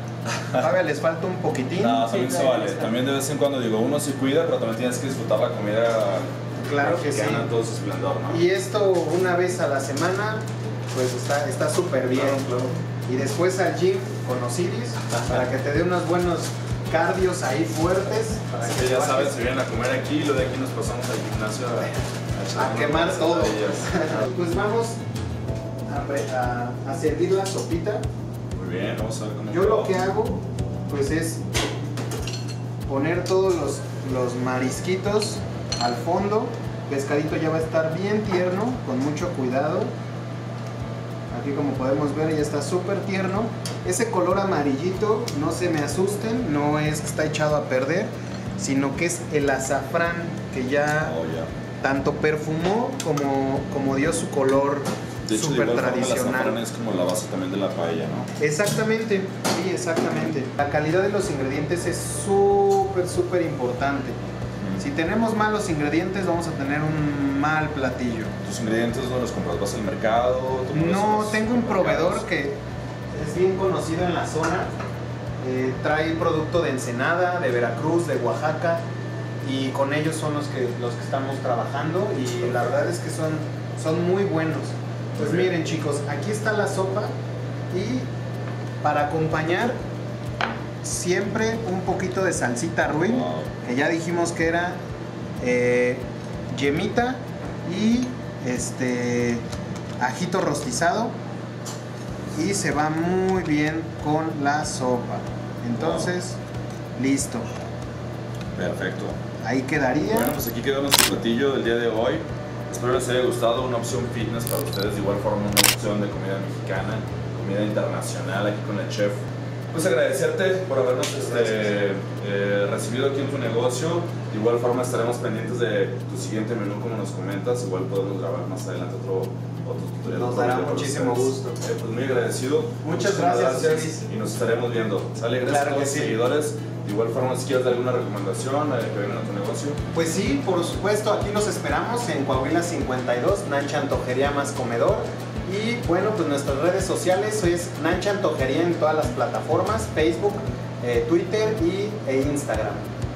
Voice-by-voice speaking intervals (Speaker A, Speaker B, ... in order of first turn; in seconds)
Speaker A: 0.3-0.7, 1.8-8.4, 12.1-12.8, 15.1-15.4, 18.6-24.3, 28.5-29.9, 51.0-51.5, 55.2-58.3, 64.6-64.8, 68.4-72.2, 85.1-85.5, 92.9-93.5, 105.8-106.1, 108.5-109.2, 110.1-139.8
Speaker B: 0.6-2.4, 6.6-7.5, 8.3-12.4, 13.1-19.4, 22.6-25.0, 25.9-28.1, 29.5-31.4, 32.9-39.9, 41.3-51.2, 51.8-56.6, 58.4-64.2, 64.8-68.3, 70.7-72.6, 73.1-74.7, 75.4-78.8, 79.4-87.1, 87.7-88.1, 88.8-89.8, 90.8-94.8, 95.4-99.5, 100.0-101.2, 102.3-106.4, 107.0-107.5, 109.4-110.3, 121.1-121.7, 130.1-131.6, 132.8-134.1, 135.5-136.2, 139.9-152.9